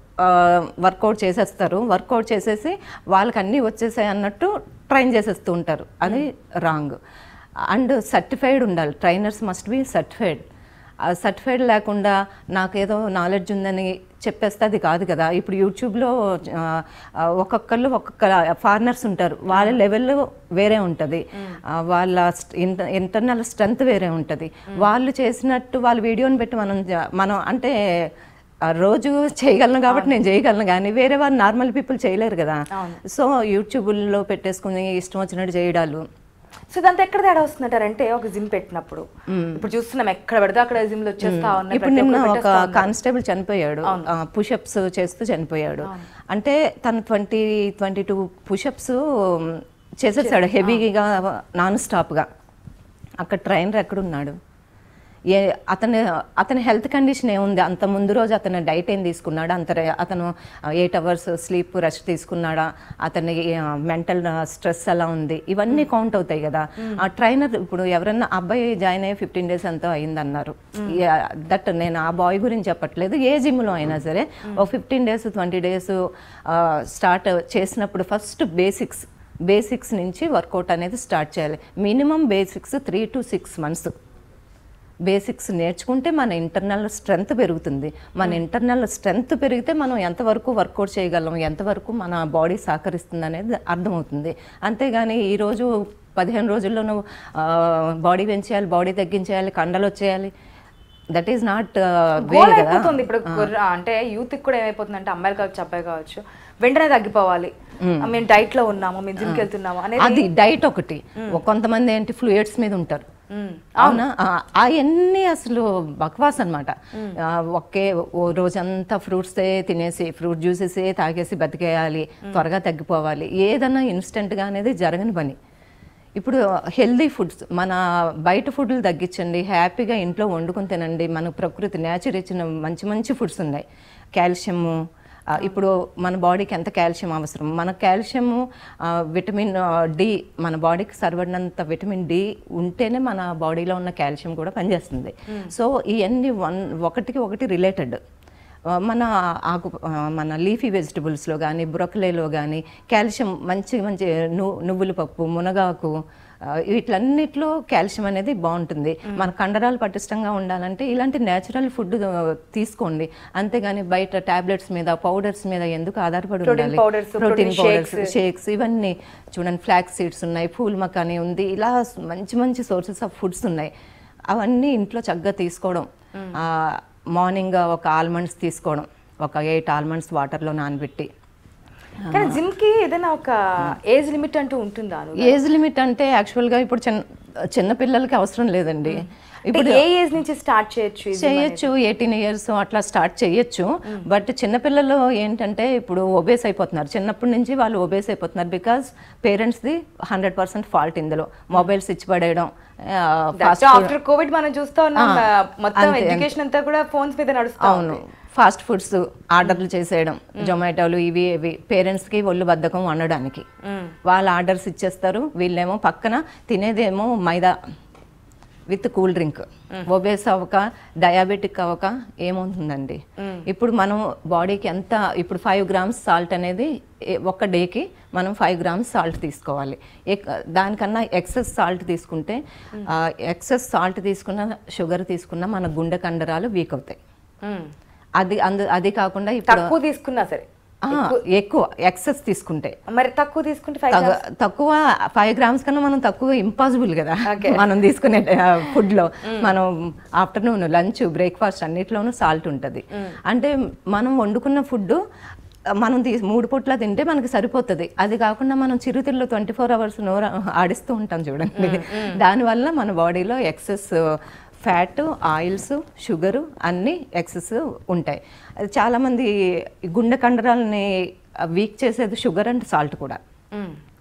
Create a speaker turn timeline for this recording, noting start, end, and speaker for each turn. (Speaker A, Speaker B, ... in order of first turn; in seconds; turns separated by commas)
Speaker A: 0.2-7.0, Speaker A: 7.7-10.4, Speaker A: 11.1-28.1, Speaker B: 19.5-19.8, Speaker A: 28.6-36.0, Speaker B: 32.7-33.0, Speaker B: 36.7-42.9, Speaker A: 39.3-39.6, Speaker A: 41.2-52.3, Speaker B: 43.8-44.1, Speaker B: 45.8-46.1, Speaker B: 50.2-50.8, Speaker A: 53.2-54.3, Speaker A: 55.3-76.0, Speaker B: 66.8-67.1, Speaker B: 70.7-71.0, Speaker A: 76.5-83.9, Speaker A: 85.0-100.3, Speaker A: 101.1-103.5, Speaker B: 102.2-110.3, Speaker A: 107.8-108.1, Speaker A: 110.0-113.0, Speaker B: 113.3-114.0, Speaker A: 113.8-125.3, Speaker A: 126.2-133.6, Speaker A: 134.2-134.7, Speaker A: 135.3-148.0, Speaker A: 148.8-156.0, Speaker A: 156.5-173.7, Speaker B: 166.4-168.1, Speaker A: 174.3-175.9, Speaker A: 176.4-181.1, Speaker A: 182.0-182.4, Speaker B: 182.1-185.4, Speaker A: 185.2-189.8, Speaker B: 188.9-191.7, Speaker A: 191.1-203.9, Speaker B: 203.4-208.0, Speaker A: 205.8-206.3, Speaker A: 207.6-213.4, Speaker B: 213.6-213.9, Speaker A: 214.1-217.5, Speaker A: 218.7-226.7, Speaker B: 223.2-223.4, Speaker A: 227.2-237.0, Speaker B: 237.4-237.7, Speaker A: 238.2-239.7, Speaker B: 239.5-241.2, Speaker A: 240.8-242.7, Speaker B: 242.9-244.2, Speaker A: 243.9-255.0, Speaker B: 247.3-247.6, Speaker B: 249.2-249.5, Speaker A: 255.8-264.0, Speaker B: 261.6-262.2, Speaker A: 264.6-269.3, Speaker A: 269.9-270.9, Speaker A: 271.5-273.2